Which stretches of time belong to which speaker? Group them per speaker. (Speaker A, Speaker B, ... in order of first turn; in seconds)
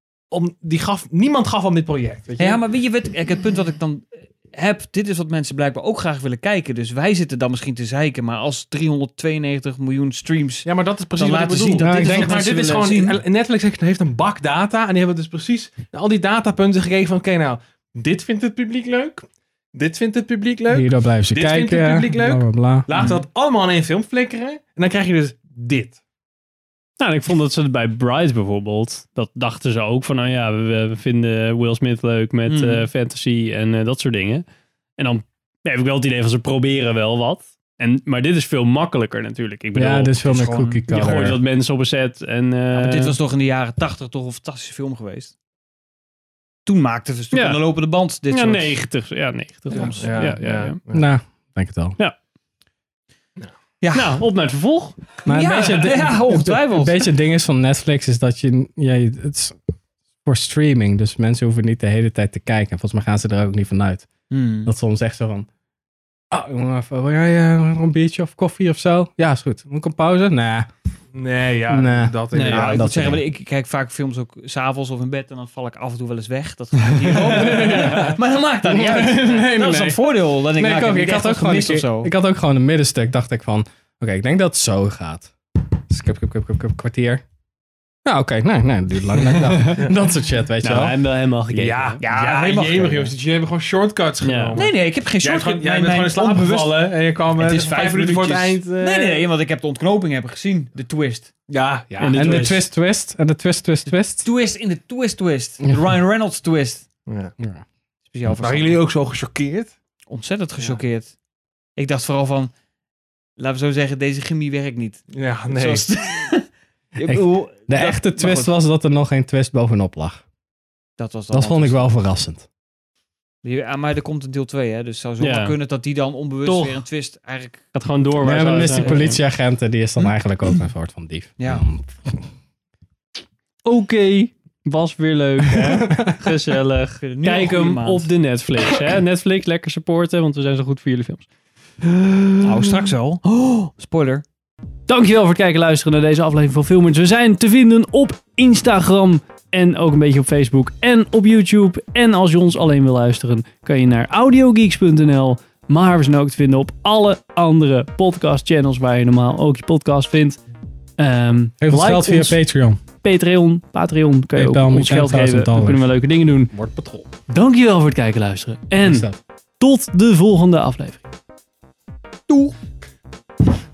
Speaker A: 0.3-2.6, 10.7-26.0, 49.8-51.1, 71.1-72.8, 91.5-99.3, 101.5-102.6, 107.1-107.3, 108.4-109.7, 115.1-115.9
Speaker B: 2.4-13.2, 22.9-23.2, 32.5-32.9, 40.2-41.3, 42.7-45.3, 46.6-48.9, 49.7-50.4, 53.8-54.2, 55.2-57.1, 64.3-64.7, 72.5-82.1, 92.0-93.1, 94.5-101.3, 103.9-106.8, 108.1-108.9, 110.1-111.1, 111.8-112.5, 113.4-116.5, 117.0-118.5, 121.0-122.0, 123.4-127.6, 128.3-129.1, 131.4-131.6, 137.0-138.1, 142.4-144.2
Speaker C: 11.8-12.6, 20.7-23.0, 39.7-41.4, 50.9-52.0, 55.2-59.6, 60.2-64.1, 64.6-65.5, 66.3-70.7, 71.7-73.2, 77.1-87.2, 88.0-91.0, 102.1-104.3, 117.1-120.2, 121.3-122.5, 128.2-132.2, 135.5-136.1, 161.6-162.8, 164.3-165.9, 166.5-167.0, 168.8-169.2
Speaker D: 12.2-12.9, 27.0-34.5, 35.0-40.2, 40.9-43.1, 47.3-50.8, 53.9-55.0, 72.3-72.6, 89.4-89.9, 90.6-92.0, 94.2-94.6, 102.0-102.6, 125.2-125.5, 126.4-126.8, 127.7-129.2, 133.6-141.3, 141.8-142.7, 143.3-143.7, 144.9-160.4, 161.0-162.4, 163.0-166.5, 167.3-169.1, 169.6-171.0